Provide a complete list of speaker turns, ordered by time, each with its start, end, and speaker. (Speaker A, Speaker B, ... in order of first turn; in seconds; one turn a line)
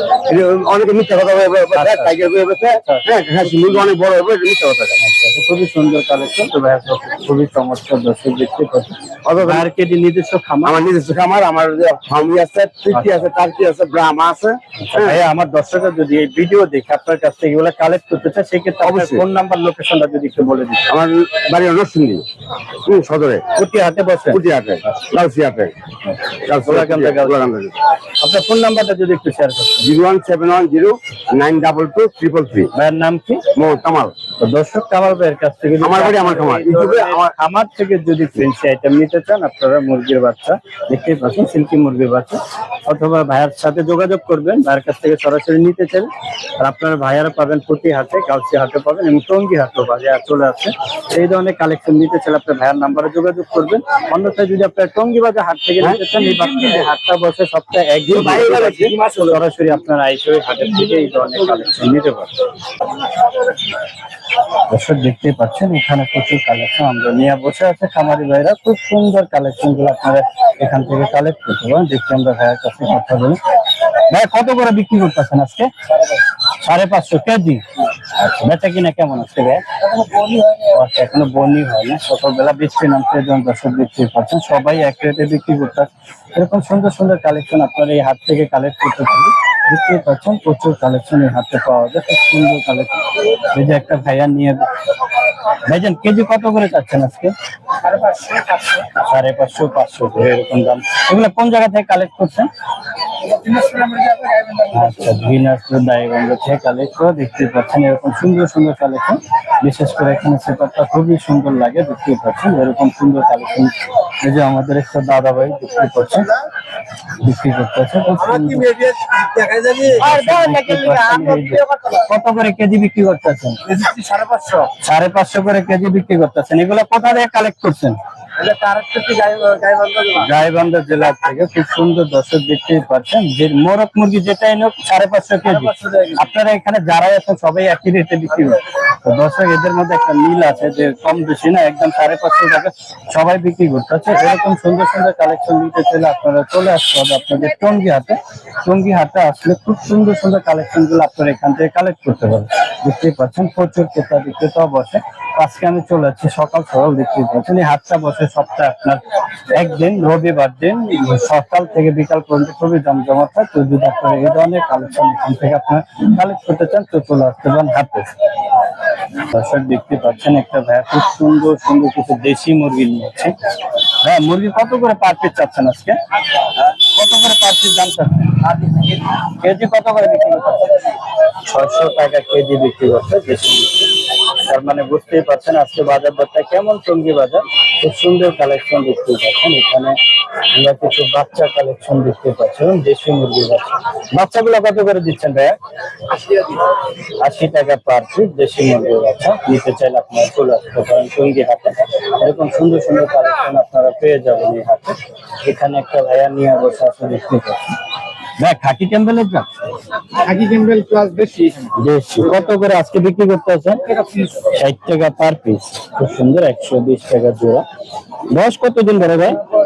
Speaker A: 0.2-5.0
Speaker B: 1.7-2.2
Speaker B: 2.7-3.9
Speaker B: 5.0-10.8
Speaker A: 9.2-9.7
Speaker A: 10.6-15.2
Speaker B: 12.9-13.2
Speaker B: 14.8-20.9
Speaker A: 18.8-19.2
Speaker A: 20.9-22.2
Speaker A: 22.8-23.4
Speaker B: 23.5-24.4
Speaker A: 24.3-25.7
Speaker A: 26.4-27.7
Speaker B: 26.5-27.5
Speaker B: 28.2-29.9
Speaker A: 29.8-32.7
Speaker B: 32.7-33.4
Speaker A: 33.5-34.1
Speaker B: 34.4-46.1
Speaker A: 35.8-37.3
Speaker B: 46.6-62.3
Speaker A: 58.1-59.4
Speaker B: 64.7-73.4
Speaker B: 73.9-75.7
Speaker B: 76.5-79.6
Speaker B: 80.6-94.7
Speaker B: 95.6-97.3
Speaker C: 97.9-98.6
Speaker B: 98.8-102.5
Speaker C: 103.3-104.7
Speaker B: 104.6-116.3
Speaker B: 117.2-118.7
Speaker C: 118.2-122.0
Speaker B: 120.0-123.6
Speaker C: 123.7-124.7
Speaker B: 124.8-128.0
Speaker C: 128.4-130.3
Speaker B: 130.2-168.1
Speaker C: 135.5-136.2
Speaker B: 169.1-173.3
Speaker B: 174.0-180.9
Speaker B: 181.4-183.9
Speaker B: 184.4-190.0
Speaker B: 190.5-195.6
Speaker B: 196.2-196.6
Speaker B: 197.2-207.7
Speaker B: 208.4-209.5
Speaker C: 210.2-211.7
Speaker B: 211.7-213.8
Speaker C: 213.9-214.4
Speaker B: 214.4-217.6
Speaker B: 218.3-219.4